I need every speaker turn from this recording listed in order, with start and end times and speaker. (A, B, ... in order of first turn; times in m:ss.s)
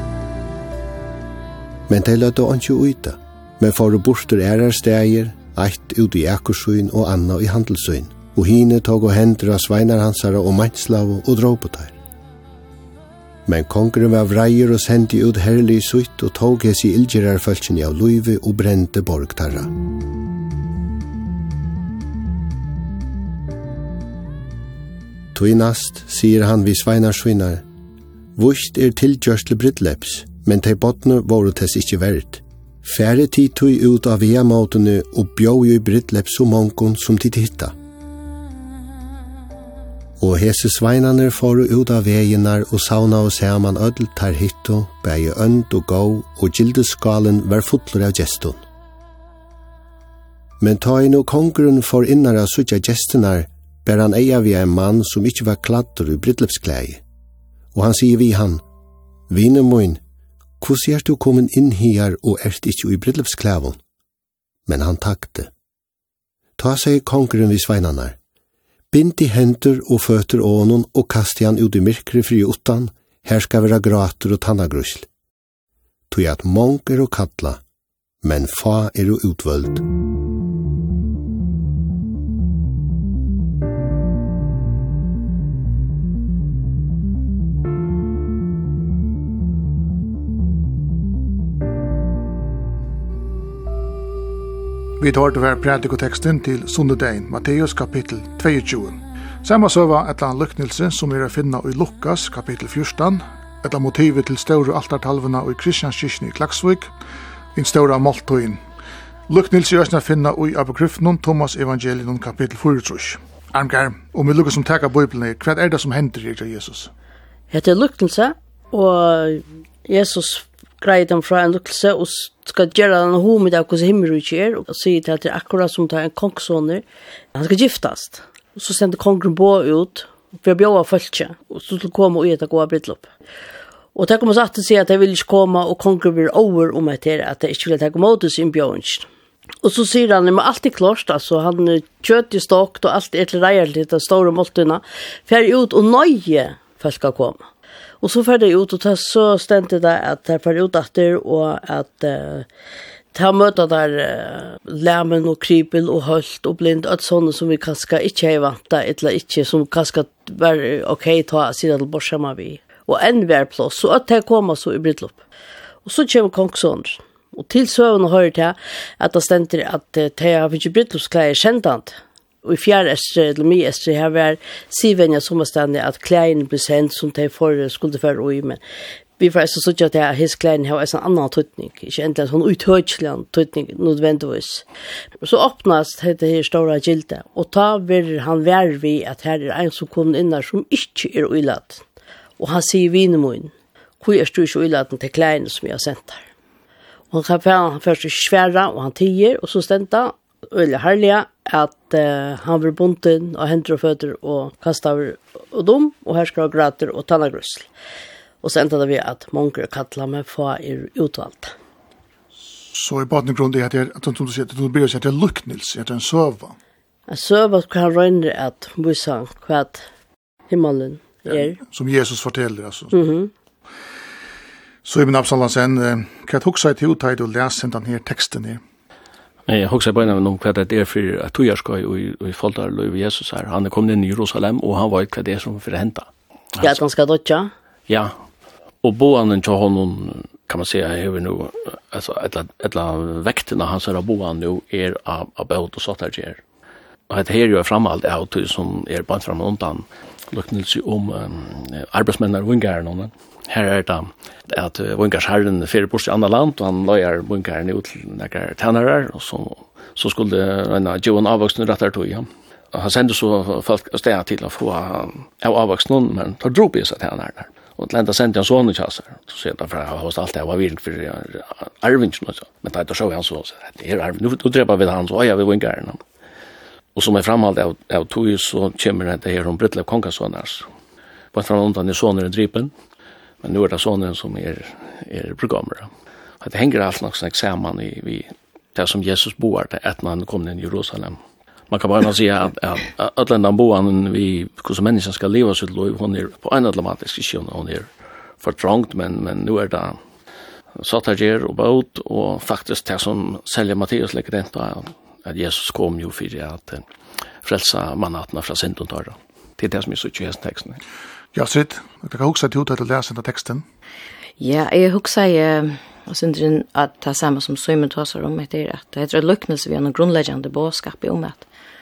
0:01.9-0:12.0 A
0:13.4-0:19.7 A
0:25.3-0:27.6 A
0:28.4-0:37.7 A
0:40.2-0:48.6 A
0:50.6-0:57.0 A
0:57.7-0:58.6 A
0:59.3-1:00.0 A
1:00.6-1:03.8 A
1:04.7-1:05.5 A
1:06.6-1:08.2 A
1:08.9-1:15.1 A
1:16.1-1:17.6 A
1:18.2-1:19.8 A
1:35.0-1:46.9 B
1:47.5-1:48.6 B
1:49.3-1:56.9 B
1:57.5-2:13.1 C
2:13.9-2:19.1 C
2:19.6-2:27.4 C
2:28.0-2:32.5 C
2:33.1-2:45.2 C
2:45.8-2:58.6 C
2:59.2-3:04.6 C
3:05.2-3:11.8 C
3:12.4-3:16.2 C
3:17.1-3:27.7 C
3:28.4-3:31.5 C
3:32.7-3:36.6 B
3:37.1-3:39.8 C
3:40.5-3:41.6 C
3:41.3-3:42.9 B
3:42.9-3:43.3 C
3:44.8-3:48.6 B
3:49.5-3:56.8 D
3:56.6-3:57.5 C
3:57.9-3:58.1 D
3:58.8-4:06.4 D
4:07.1-4:36.0 D
4:36.9-4:40.7 D
4:41.3-4:42.7 D
4:43.4-4:45.9 D
4:46.4-4:51.2 D
4:51.7-4:57.9 D
4:58.4-5:00.0 D
5:00.8-5:06.8 D
5:07.4-5:10.8 D
5:11.3-5:13.6 B
5:14.4-5:21.4 E